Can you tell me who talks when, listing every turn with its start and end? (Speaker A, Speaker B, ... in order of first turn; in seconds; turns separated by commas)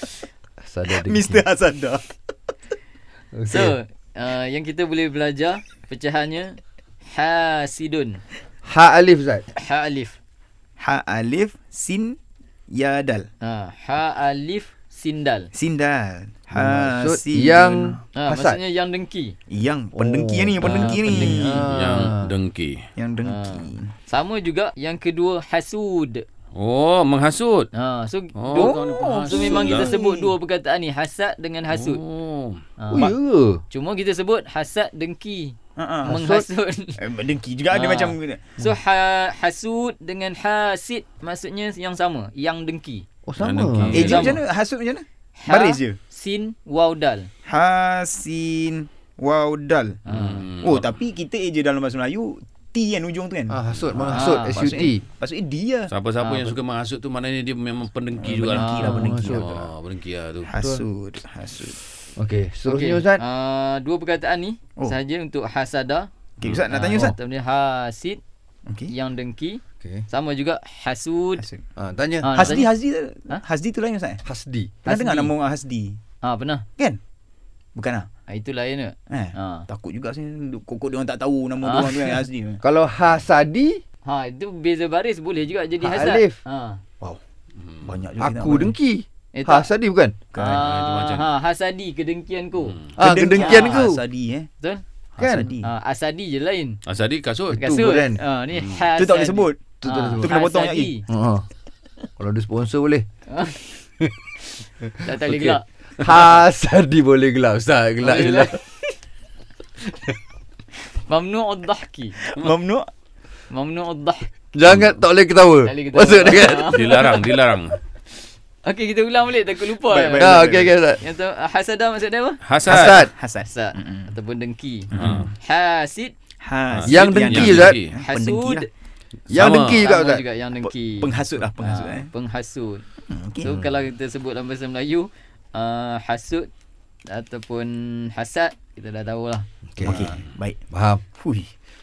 Speaker A: 0.6-1.4, Speaker B: 0.9-2.0, Speaker A: 3.3-3.7, Speaker C: 3.5-8.2, Speaker A: 8.6-9.4, Speaker C: 9.5-10.2, Speaker B: 10.8-12.2, Speaker B: 12.7-13.3, Speaker C: 13.4-15.5, Speaker B: 15.5-18.0, Speaker A: 16.5-18.6, Speaker C: 18.1-19.4, Speaker B: 19.5-21.7, Speaker A: 19.9-22.3, Speaker C: 20.6-21.3, Speaker D: 21.4-22.8, Speaker B: 22.9-23.9, Speaker C: 23.2-26.2, Speaker D: 26.5-27.7, Speaker C: 27.7-32.0, Speaker D: 28.4-29.9, Speaker B: 28.5-30.3, Speaker D: 31.7-32.6, Speaker C: 32.8-33.1, Speaker A: 32.9-33.6, Speaker C: 33.7-37.0, Speaker B: 35.8-36.1, Speaker A: 36.0-36.4, Speaker B: 37.0-38.6, Speaker C: 37.7-43.0, Speaker A: 43.2-44.3, Speaker D: 43.4-44.4, Speaker C: 43.9-44.4, Speaker B: 43.9-46.0, Speaker C: 45.4-47.3, Speaker B: 47.5-50.0, Speaker C: 50.1-50.4, Speaker D: 50.1-51.0, Speaker B: 50.6-55.9, Speaker A: 53.5-55.0, Speaker C: 54.1-54.9, Speaker D: 55.9-58.8, Speaker C: 56.2-56.5, Speaker B: 58.2-59.6, Speaker C: 58.5-59.1, Speaker A: 58.8-59.6, Speaker D: 59.3-60.5, Speaker B: 60.5-61.8, Speaker A: 60.5-60.8, Speaker A: 62.1-63.2, Speaker C: 62.6-66.1, Speaker B: 66.4-67.1, Speaker C: 66.7-68.2, Speaker B: 68.7-68.9, Speaker C: 68.9-71.4, Speaker B: 71.4-71.6, Speaker A: 71.8-72.6, Speaker C: 72.2-72.7, Speaker B: 72.3-74.2, Speaker A: 74.2-74.8, Speaker C: 74.8-75.3, Speaker B: 74.9-76.0, Speaker C: 76.2-76.6, Speaker B: 77.7-78.1, Speaker C: 78.3-79.7, Speaker B: 79.1-82.6, Speaker C: 81.6-82.2, Speaker A: 82.6-83.8, Speaker C: 84.0-86.8, Speaker A: 85.8-86.4, Speaker D: 87.7-88.0, Speaker B: 87.8-88.7, Speaker A: 88.2-90.2, Speaker C: 89.3-89.7, Speaker B: 90.3-90.6, Speaker C: 90.3-92.8, Speaker D: 90.5-91.3, Speaker D: 92.6-92.9, Speaker A: 93.0-94.0, Speaker B: 93.0-94.5, Speaker C: 93.3-93.9, Speaker A: 95.2-95.5, Speaker B: 95.2-95.7, Speaker C: 95.6-96.8, Speaker D: 96.8-97.6, Speaker A: 97.5-98.2, Speaker C: 97.6-101.0, Speaker D: 98.5-98.8, Speaker B: 99.0-100.9, Speaker A: 99.8-100.3, Speaker A: 101.1-101.5, Speaker A: 102.2-103.0, Speaker C: 103.3-103.8, Speaker A: 104.8-108.6, Speaker C: 105.0-105.6, Speaker C: 108.0-108.9, Speaker C: 110.9-112.2, Speaker B: 112.2-112.9, Speaker C: 113.5-114.3, Speaker A: 114.5-117.2, Speaker D: 114.7-114.9, Speaker C: 115.6-117.1, Speaker D: 116.5-117.8, Speaker C: 118.6-120.4, Speaker B: 119.8-120.8, Speaker A: 120.2-121.0, Speaker C: 121.0-122.4, Speaker D: 122.4-123.0, Speaker A: 122.7-123.1, Speaker B: 122.7-124.1, Speaker C: 123.4-126.1, Speaker B: 124.9-125.3, Speaker D: 125.0-125.3, Speaker B: 126.4-128.7, Speaker D: 126.7-127.9, Speaker A: 126.9-127.8, Speaker C: 128.0-128.7, Speaker D: 129.3-129.9, Speaker A: 129.3-130.2, Speaker C: 129.4-132.8, Speaker B: 130.6-132.1, Speaker B: 133.1-133.6, Speaker C: 133.4-136.5, Speaker C: 137.1-140.2, Speaker A: 139.7-140.1, Speaker B: 139.8-140.6, Speaker A: 140.7-141.0, Speaker B: 141.1-141.5